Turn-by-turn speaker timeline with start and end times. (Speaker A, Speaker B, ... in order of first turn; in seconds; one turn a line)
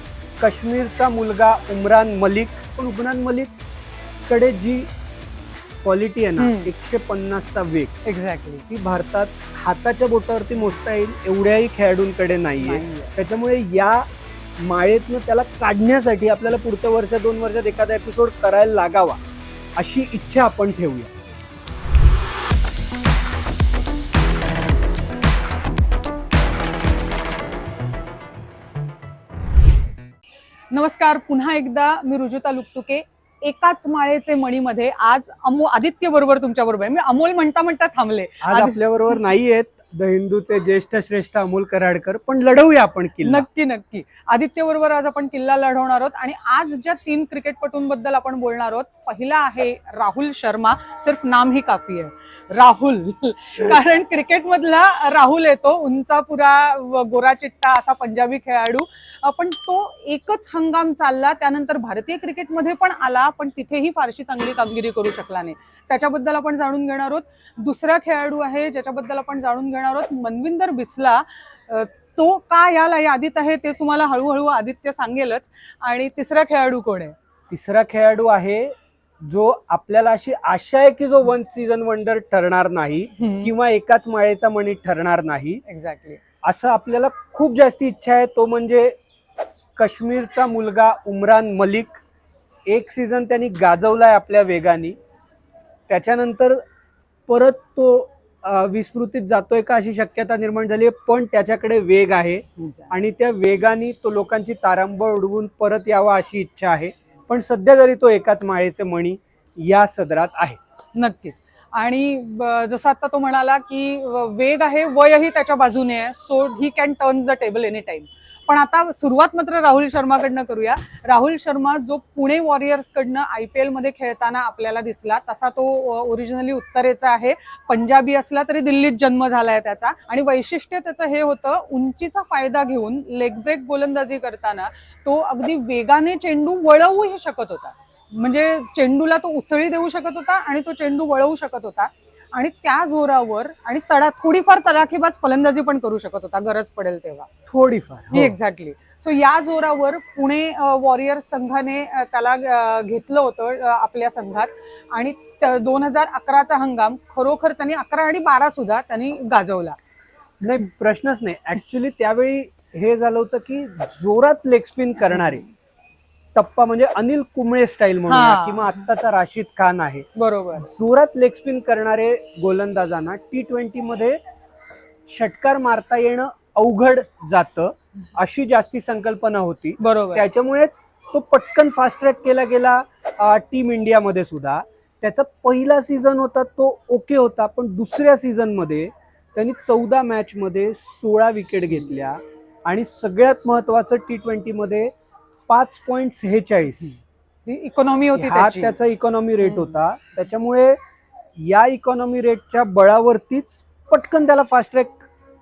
Speaker A: 0.4-3.5
Speaker A: 4.3-4.9
Speaker A: 5.8-7.9
Speaker B: 6.4-6.7
Speaker B: 8.0-8.6
Speaker A: 8.7-14.0
Speaker B: 12.6-13.2
Speaker A: 14.6-19.2
Speaker A: 19.8-21.1
Speaker B: 30.7-38.8
Speaker A: 38.4-43.5
Speaker B: 43.2-77.1
Speaker A: 77.5-85.6
Speaker B: 83.2-83.5
Speaker B: 85.7-86.2
Speaker A: 86.4-89.0
Speaker A: 89.8-92.0
Speaker A: 92.7-95.0
Speaker A: 95.9-96.6
Speaker A: 97.3-110.6
Speaker B: 102.6-102.9
Speaker B: 110.9-147.3
Speaker A: 147.5-148.4
Speaker B: 148.1-159.8
Speaker A: 160.4-165.4
Speaker A: 166.3-170.0
Speaker B: 168.1-168.8
Speaker B: 170.2-170.7
Speaker A: 170.6-174.2
Speaker A: 175.1-194.9
Speaker B: 179.8-180.2
Speaker A: 195.5-197.0
Speaker B: 197.4-198.8
Speaker A: 198.1-200.8
Speaker B: 199.4-199.8
Speaker A: 201.4-205.1